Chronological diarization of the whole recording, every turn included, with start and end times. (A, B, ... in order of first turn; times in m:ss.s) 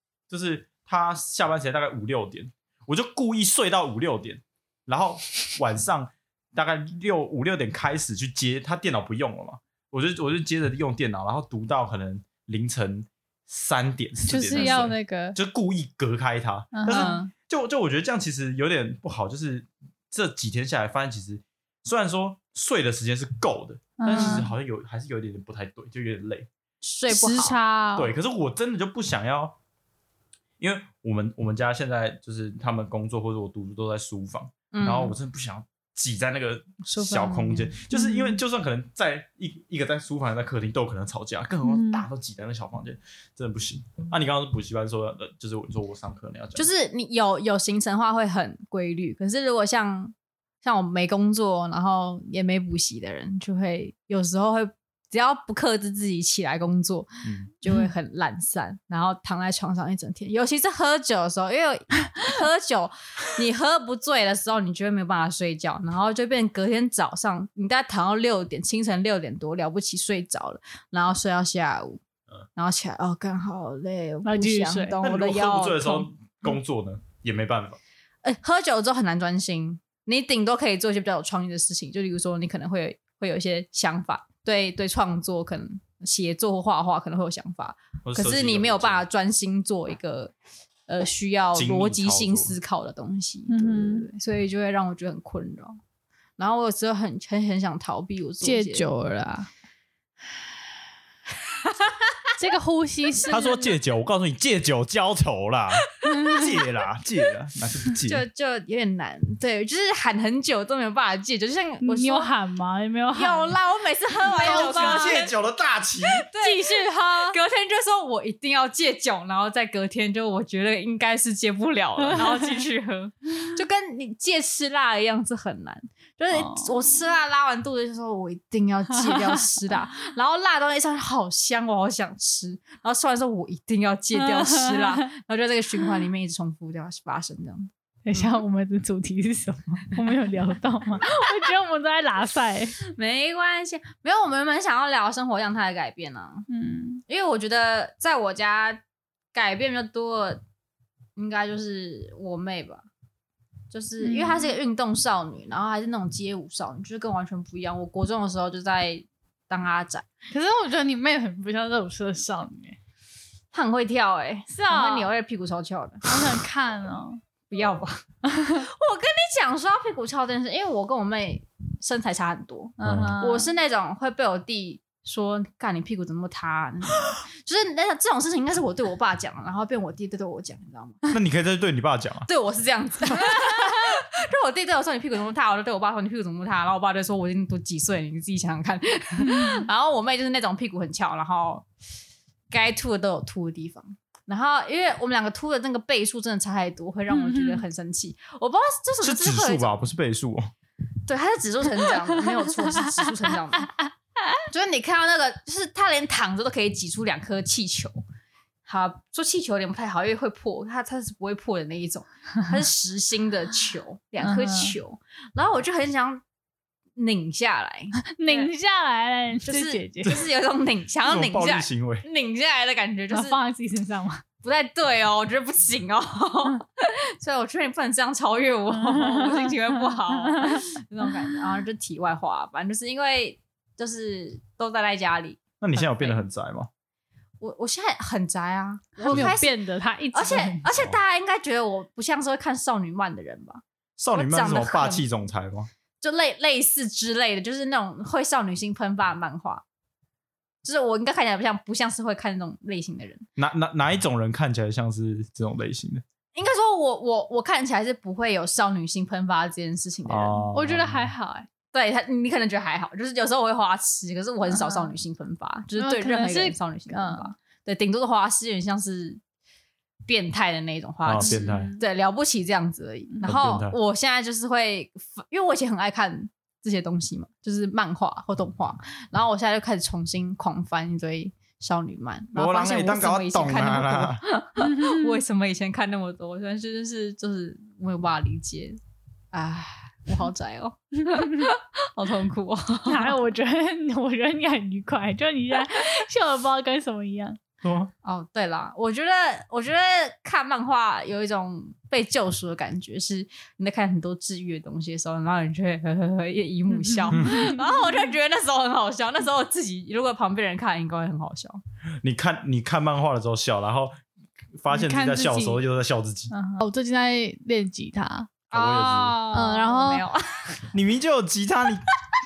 0:00.3-0:26.5 A
0:14.3-0:15.4 B
0:14.6-0:14.8 C
0:16.7-0:17.2 B
0:16.9-0:17.3 C
0:24.0-0:24.5 B
0:24.1-0:24.4 C
0:26.8-0:27.6 C
0:27.1-0:28.1 B
0:28.0-0:29.6 A
0:30.6-0:46.7 A
0:34.7-0:35.2 C
0:36.9-0:38.4 B
0:41.6-0:42.0 B
0:46.5-1:12.0 C
0:57.2-0:57.5 A
1:12.6-1:16.0 C
1:14.2-1:15.0 B
1:15.0-1:17.8 A
1:18.2-1:30.3 C
1:28.0-1:29.0 A
1:30.9-1:35.8 C
1:31.5-1:32.5 A
1:33.5-1:34.1 B
1:36.4-1:38.9 C
1:38.4-1:39.5 B
1:41.6-1:42.3 C
1:42.4-1:43.8 B
1:43.3-1:48.2 A
1:46.0-1:46.5 B
1:48.1-1:52.3 C
1:51.8-1:53.5 B
1:53.1-1:55.3 C
1:54.2-1:55.2 B
1:54.4-1:56.3 A
1:56.2-2:18.4 C
1:56.3-1:57.4 B
2:02.1-2:02.5 B
2:06.3-2:06.7 B
2:14.2-2:15.0 B
2:18.0-2:22.8 B
2:22.9-2:26.4 C
2:26.5-2:27.0 B
2:27.1-2:28.8 C
2:29.3-2:30.4 C
2:31.2-2:32.8 C
2:33.7-2:40.0 C
2:34.0-2:34.5 B
2:40.3-2:42.8 B
2:43.5-2:46.1 C
2:44.5-2:45.1 B
2:46.0-2:47.2 B
2:47.5-3:01.1 C
2:52.8-2:53.1 A
2:52.8-2:53.5 B
3:01.1-3:02.3 A
3:02.3-3:11.7 C
3:09.2-3:09.6 B
3:12.5-3:19.8 C
3:17.1-3:17.6 B
3:19.0-3:20.5 A
3:21.1-3:23.7 C
3:24.5-3:28.0 C
3:28.6-3:36.2 C
3:34.2-3:34.8 B
3:37.0-3:38.5 C
3:38.2-3:40.2 B
3:39.4-3:43.4 C
3:41.0-3:42.0 A
3:43.1-3:44.2 B
3:44.4-3:56.2 C
3:48.7-3:50.6 B
3:55.6-3:56.7 A
3:57.4-3:59.5 C
3:59.0-4:00.6 B
3:59.1-3:59.4 A
4:00.1-4:05.0 C
4:04.0-4:05.7 A
4:06.0-4:09.6 C
4:10.6-4:13.2 C
4:13.4-4:16.0 A
4:16.3-4:20.4 C
4:20.0-4:21.1 A
4:20.5-4:21.5 B
4:21.7-4:29.2 C
4:24.5-4:25.0 B
4:25.8-4:27.3 B
4:30.0-4:48.8 C
4:31.0-4:31.7 A
4:31.2-4:31.8 B
4:33.2-4:33.8 A
4:42.3-4:44.2 A
4:44.6-4:45.2 B
4:49.3-4:53.1 C
4:52.9-4:57.4 B
4:57.6-4:57.9 A
4:58.0-5:11.6 C
5:06.8-5:08.0 B
5:07.1-5:07.4 A
5:12.0-5:14.0 A
5:14.6-5:16.3 A
5:14.7-5:15.6 B
5:16.3-5:16.6 C
5:16.6-5:18.3 B
5:18.5-5:20.6 C
5:18.5-5:19.2 A
5:19.3-5:20.0 B
5:20.7-5:21.8 A